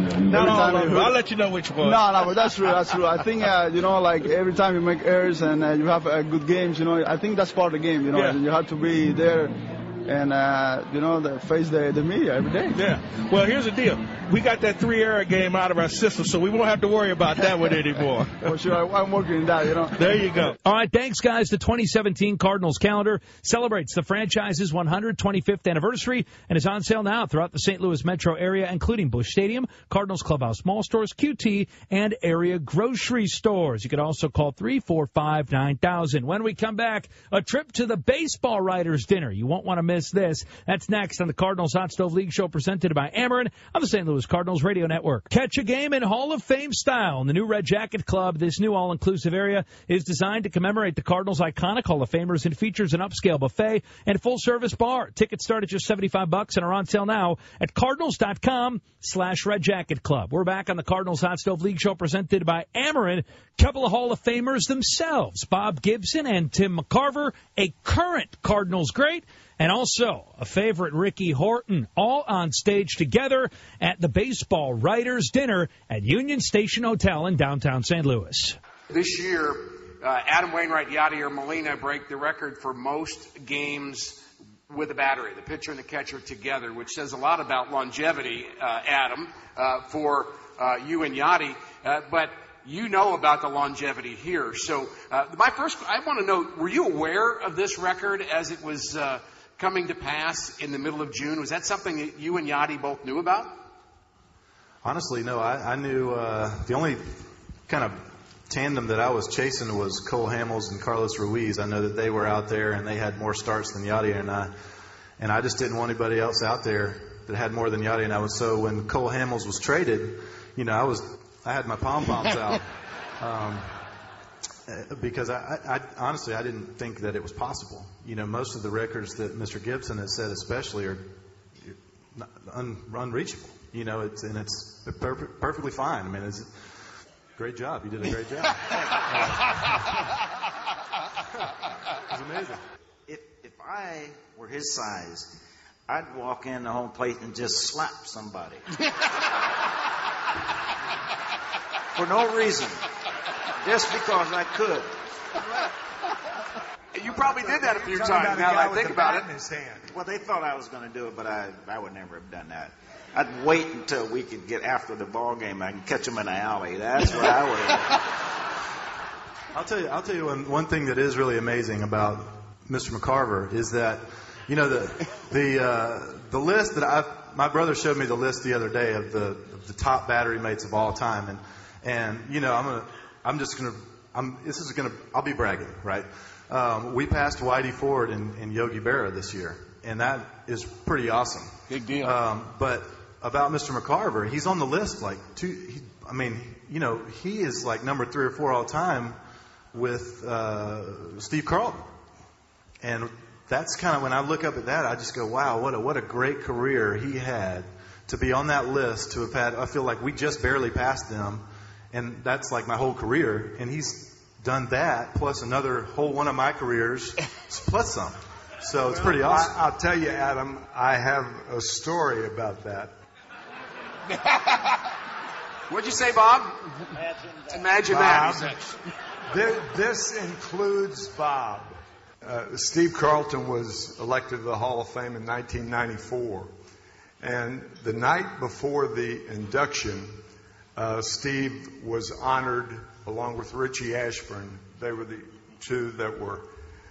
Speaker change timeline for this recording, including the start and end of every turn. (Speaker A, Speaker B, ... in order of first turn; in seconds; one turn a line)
Speaker A: 0.3-2.2
Speaker B: 0.3-1.1
Speaker B: 1.8-12.8
Speaker A: 8.1-8.4
Speaker A: 12.7-18.6
Speaker B: 18.4-20.1
Speaker A: 19.9-20.6
Speaker C: 20.6-78.6
Speaker D: 78.9-103.6
Speaker E: 104.8-114.5
Speaker E: 115.2-123.7
Speaker E: 124.7-131.1
Speaker E: 131.6-136.5
Speaker E: 137.4-139.4
Speaker F: 138.7-139.0
Speaker G: 142.1-142.6
Speaker F: 143.1-145.3
Speaker F: 145.9-148.6
Speaker F: 151.9-152.8
Speaker F: 153.6-154.9
Speaker D: 156.9-159.3
Speaker G: 157.1-159.9
Speaker F: 159.9-168.0
Speaker E: 169.5-199.2
Speaker E: 199.7-201.9
Speaker E: 202.8-219.6
Speaker G: 218.8-222.9
Speaker D: 225.7-226.8
Speaker F: 226.9-228.0
Speaker D: 227.5-228.7
Speaker G: 227.9-228.5
Speaker G: 229.3-236.5
Speaker G: 237.2-240.2
Speaker G: 240.8-246.5